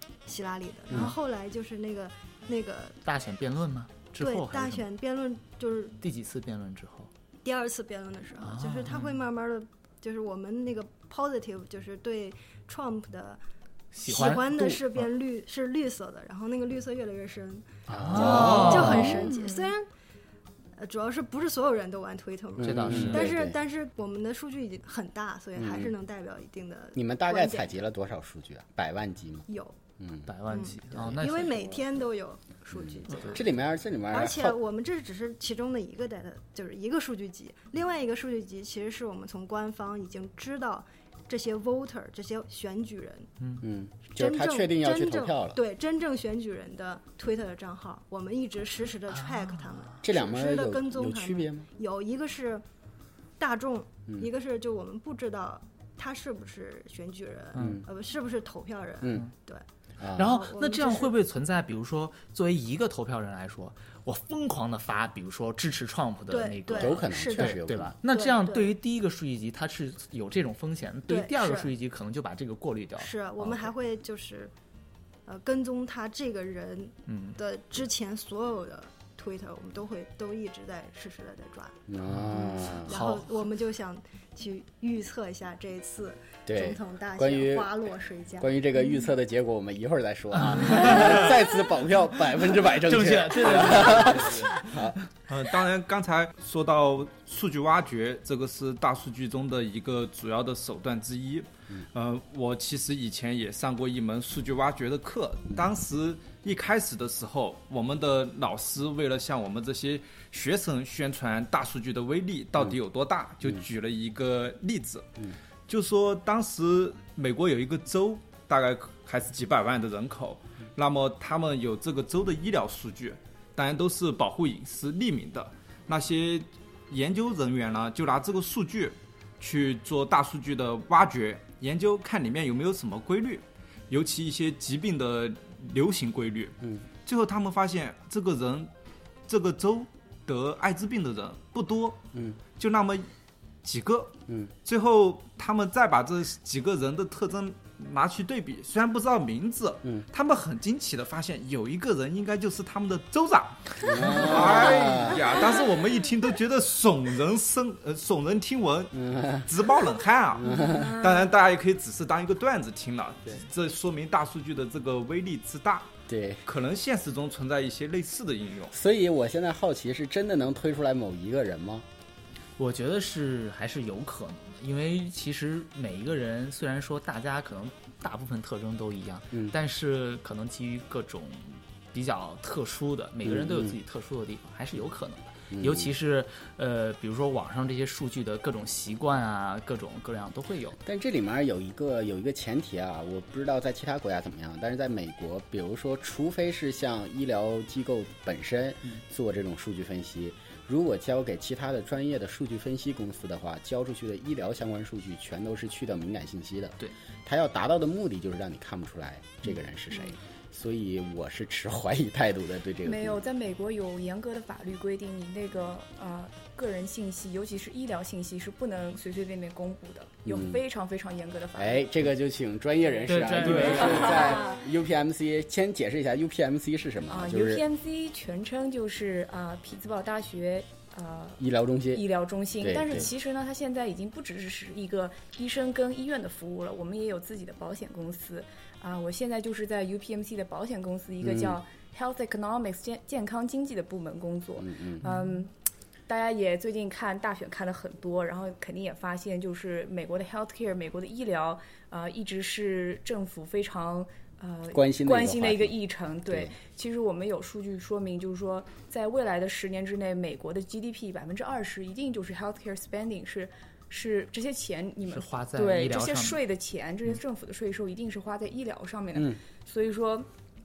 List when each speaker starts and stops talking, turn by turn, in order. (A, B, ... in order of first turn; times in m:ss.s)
0:00.3-0:03.0 A
0:03.0-0:04.9 B
0:04.2-0:06.0 A
0:06.0-0:07.1 B
0:07.4-0:13.4 A
0:08.4-0:09.1 B
0:13.9-0:15.0 B
0:14.0-0:19.9 A
0:17.9-0:19.2 B
0:17.9-0:19.3 C
0:19.2-0:19.7 D
0:20.8-0:27.8 A
0:22.6-0:23.6 C
0:22.6-0:23.3 B
0:25.6-0:25.9 C
0:27.0-0:29.5 C
0:29.5-0:29.8 A
0:30.0-0:31.7 C
0:30.3-0:31.6 B
0:30.5-0:33.5 A
0:32.7-0:34.6 C
0:34.1-0:43.3 A
0:43.6-0:45.6 C
0:44.2-0:52.6 A
0:49.1-0:50.0 B
0:50.0-0:51.7 C
0:53.4-0:59.6 A
0:57.6-0:57.8 B
0:57.6-0:57.8 C
1:00.0-1:00.3 C
1:00.2-1:13.7 B
1:00.2-1:01.2 A
1:06.3-1:08.7 A
1:06.7-1:07.9 C
1:11.1-1:11.7 A
1:13.0-1:14.5 A
1:15.3-1:21.8 A
1:17.1-1:17.4 B
1:21.9-1:23.0 C
1:22.2-1:23.3 B
1:22.3-1:28.5 A
1:26.5-1:27.7 C
1:28.4-1:35.0 C
1:30.6-1:31.0 B
1:32.7-1:34.7 B
1:35.3-1:55.1 E
1:55.7-2:18.7 E
2:19.3-2:23.1 E
2:22.1-2:22.4 C
2:23.6-2:45.9 E
2:33.8-2:35.3 C
2:38.9-2:39.5 C
2:40.4-2:41.0 C
2:46.1-2:46.4 C
2:46.4-2:48.7 E
2:48.7-2:51.9 C
2:52.6-3:10.8 B
3:03.2-3:03.8 C
3:05.5-3:05.9 C
3:10.8-3:33.2 C
3:32.8-3:41.9 D
3:40.2-3:40.6 C
3:41.6-3:47.6 C
3:43.1-3:44.2 B
3:43.4-3:44.6 D
3:47.1-4:05.5 D
3:51.4-3:52.1 C
3:52.6-3:53.1 C
4:01.2-4:01.6 C
4:04.6-4:05.0 C
4:06.1-4:30.3 D
4:14.7-4:16.5 C
4:25.1-4:26.4 B